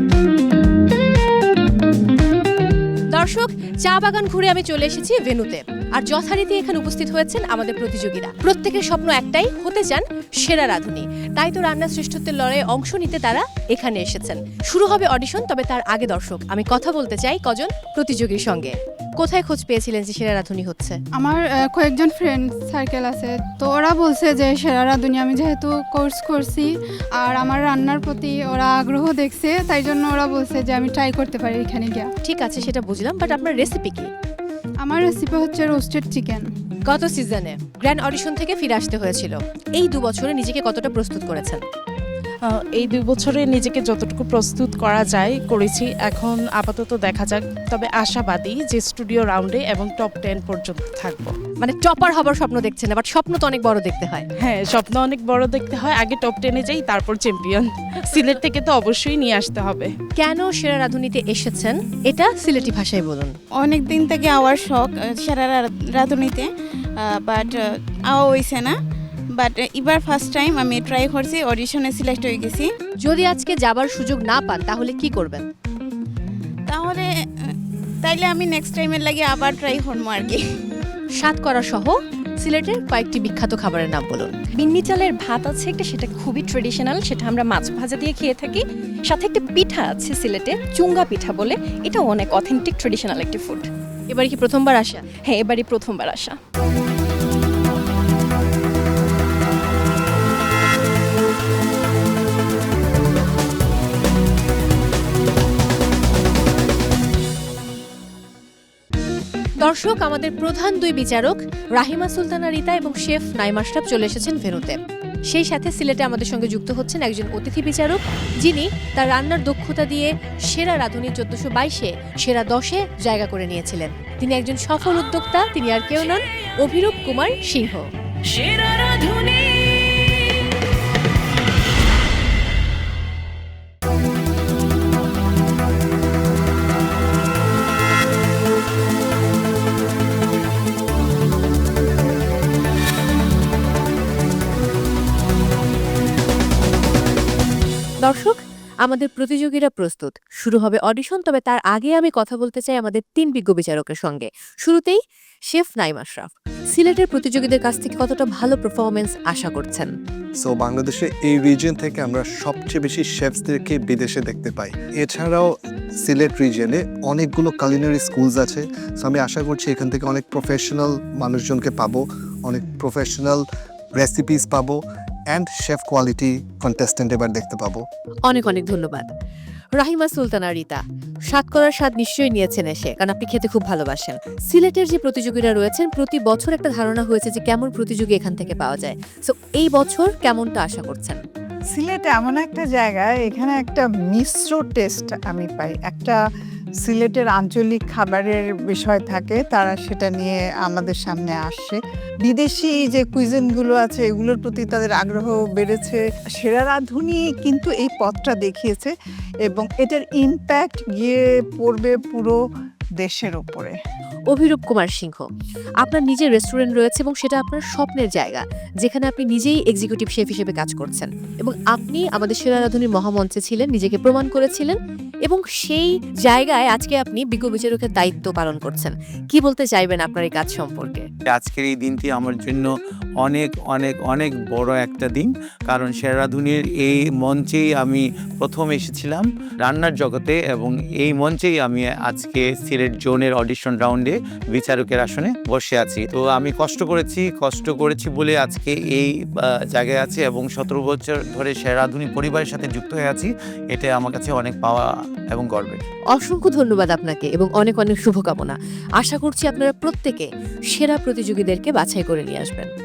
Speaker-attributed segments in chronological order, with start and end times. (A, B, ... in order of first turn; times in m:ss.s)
0:03.1-0:21.0 A
0:21.1-0:32.1 B
0:32.2-0:34.1 A
0:34.8-0:36.5 B
0:36.9-0:41.6 A
0:42.5-0:51.3 C
0:51.6-0:54.2 A
0:54.4-0:59.9 C
1:00.2-1:03.4 A
1:03.6-1:08.7 D
1:09.3-1:12.7 D
1:13.0-1:15.4 A
1:16.7-1:20.4 D
1:21.2-1:24.3 A
1:24.5-1:33.7 E
1:34.1-1:35.0 A
1:35.2-1:36.4 E
1:49.6-2:07.9 A
2:28.0-2:39.9 A
2:40.4-2:53.4 F
2:53.9-2:57.8 F
2:58.2-2:59.1 A
2:59.8-3:11.2 A
3:11.7-3:16.2 G
3:16.8-3:28.9 G
3:29.4-3:32.4 G
3:33.0-3:33.8 G
3:34.3-3:35.3 A
3:35.8-3:51.1 A
3:51.3-3:52.7 H
3:53.2-4:15.8 H
4:16.1-4:22.7 A